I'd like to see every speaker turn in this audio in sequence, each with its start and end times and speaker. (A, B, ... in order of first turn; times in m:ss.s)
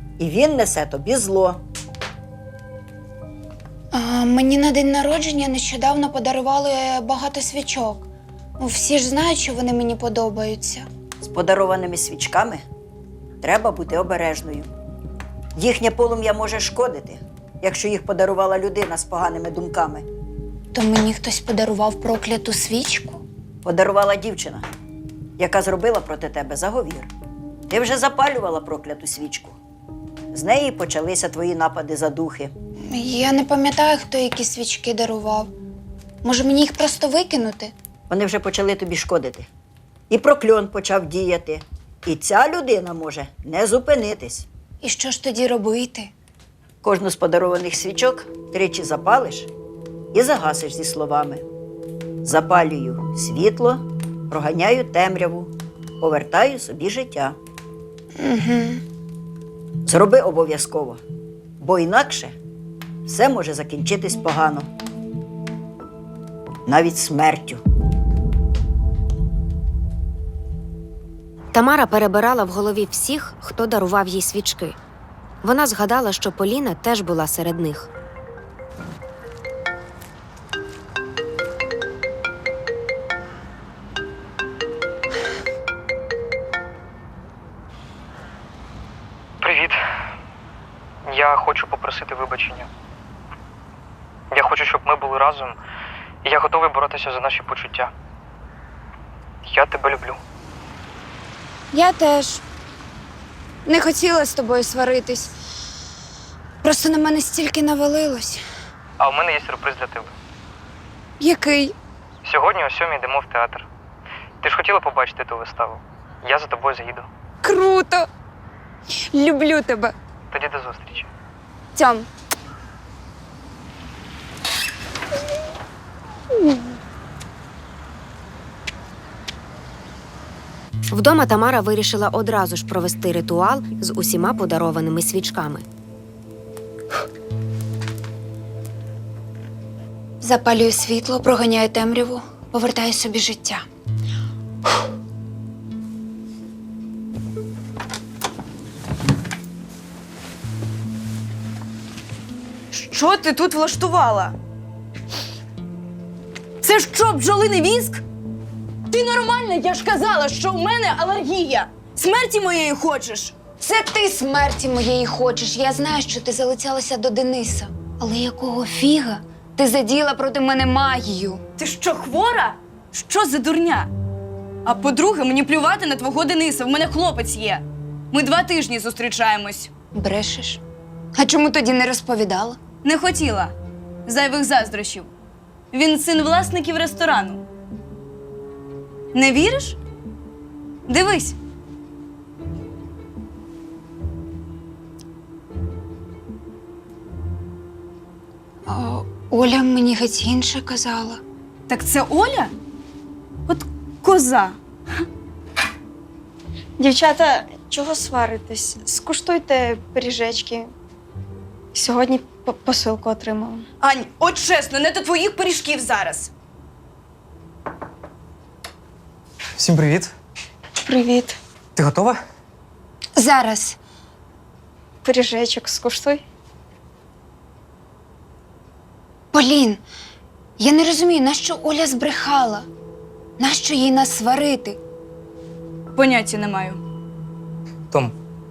0:00.2-0:01.6 A
0:03.9-0:10.9 B
0:11.2-0:12.6 A
0:13.4-0:14.7 A
0:15.6-0:20.1 A
0:20.7-0:23.2 B
0:23.6-0:24.7 A
0:25.4-0:27.1 A
0:27.7-0:29.6 A
0:30.3-0:32.5 A
0:32.9-0:35.5 B
0:36.2-0:37.7 B
0:38.1-0:39.5 A
0:40.1-0:44.5 A
0:44.8-0:46.1 B
0:46.8-0:49.5 A
0:50.1-0:51.4 A
0:52.2-0:57.4 A
0:58.2-0:58.8 B
0:59.8-1:01.0 A
1:01.6-1:02.4 A
1:03.1-1:04.7 A
1:06.7-1:07.6 A
1:11.5-1:14.8 C
1:15.4-1:17.9 C
1:29.4-1:29.8 D
1:31.1-1:32.7 D
1:34.3-1:35.6 D
1:36.2-1:37.9 D
1:39.4-1:40.2 D
1:41.7-1:42.4 B
1:43.6-1:45.3 B
1:46.6-1:48.4 B
1:49.0-1:50.1 D
1:51.2-1:51.8 B
1:52.2-1:53.7 D
1:54.4-1:57.1 D
1:57.4-1:58.1 B
1:59.1-1:59.9 B
2:00.3-2:01.1 D
2:01.8-2:02.1 B
2:10.9-2:15.6 C
2:20.2-2:23.6 B
2:32.7-2:34.4 E
2:36.6-2:38.0 E
2:38.9-2:43.4 E
2:43.6-2:51.4 B
2:51.6-2:53.9 E
2:54.6-2:59.7 E
2:59.9-3:00.6 B
3:01.2-3:02.6 B
3:02.8-3:03.5 E
3:04.1-3:05.1 E
3:05.7-3:07.4 E
3:09.1-3:09.8 E
3:10.9-3:11.4 E
3:18.7-3:21.2 B
3:21.7-3:22.5 E
3:23.5-3:24.6 E
3:26.8-3:30.7 F
3:31.7-3:33.7 F
3:33.8-3:36.3 E
3:39.6-3:40.1 D
3:40.8-3:41.4 F
3:41.8-3:42.2 D
3:43.2-3:43.8 B
3:45.0-3:46.2 F
3:49.3-3:49.8 B
3:50.6-3:52.7 B
3:53.4-3:54.8 B
3:55.9-3:56.8 E